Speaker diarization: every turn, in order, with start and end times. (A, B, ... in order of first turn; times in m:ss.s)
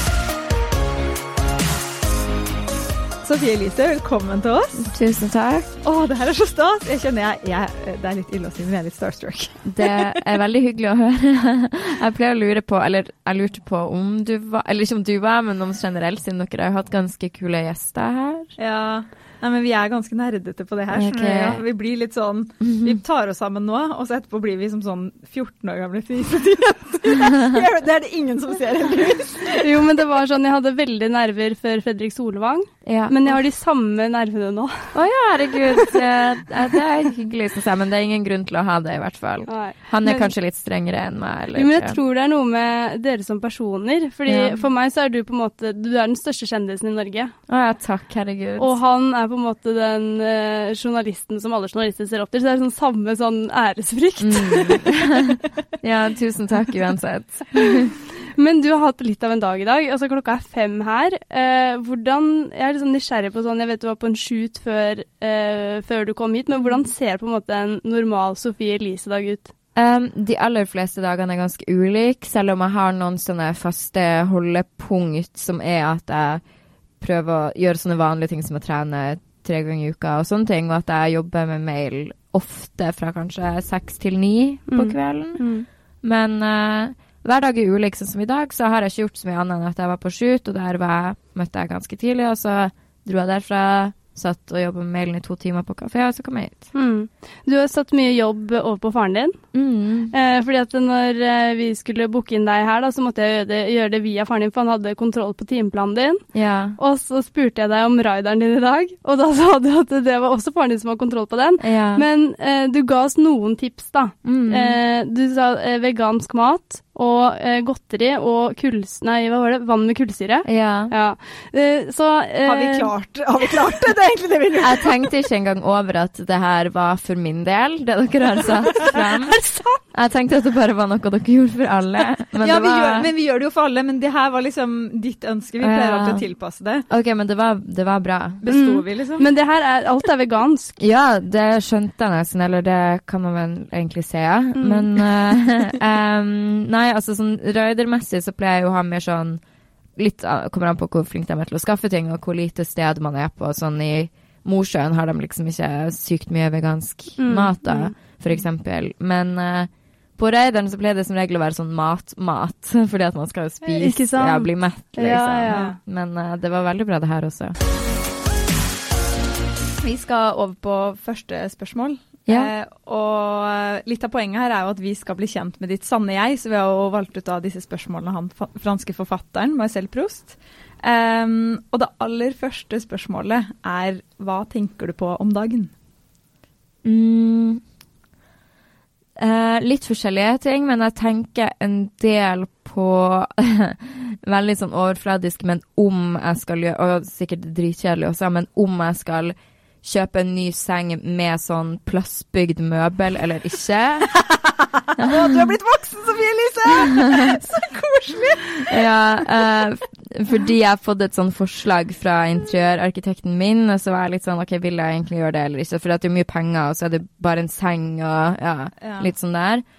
0:03.2-0:04.8 A
0:04.8-0:05.7 B
0:05.8-0:10.2 A
0:09.6-0:18.5 B
0:18.6-0:29.6 A
0:20.9-0:21.6 B
0:22.7-0:23.0 B
0:29.5-0:35.0 C
0:32.8-0:33.2 B
0:34.9-0:42.0 B
0:39.5-0:40.3 C
0:41.6-0:47.4 C
0:44.3-0:44.6 B
0:47.5-0:48.8 B
0:48.6-0:55.1 C
0:54.2-0:57.9 B
0:58.2-1:09.5 C
1:09.8-1:16.4 B
1:17.0-1:25.5 B
1:24.7-1:25.7 C
1:26.0-1:36.7 B
1:36.7-1:39.4 C
1:39.5-1:40.1 B
1:40.1-2:02.9 C
1:46.3-1:46.8 B
1:51.6-1:52.0 B
1:54.2-1:54.8 B
2:00.4-2:00.9 B
2:02.4-2:05.1 A
2:04.6-2:13.1 B
2:12.4-2:16.9 A
2:15.6-2:16.2 B
2:16.9-2:18.4 B
2:18.4-2:19.3 A
2:18.5-2:20.8 C
2:20.8-2:29.4 B
2:24.6-2:24.9 C
2:30.0-2:47.6 B
2:37.2-2:38.0 C
2:43.6-2:45.8 C
2:45.5-2:45.8 A
2:49.8-3:05.7 A
3:06.8-3:07.6 B
3:09.2-3:24.1 B
3:25.0-3:28.9 A
3:25.0-3:25.6 B
3:28.7-3:39.6 B
3:38.8-3:39.1 A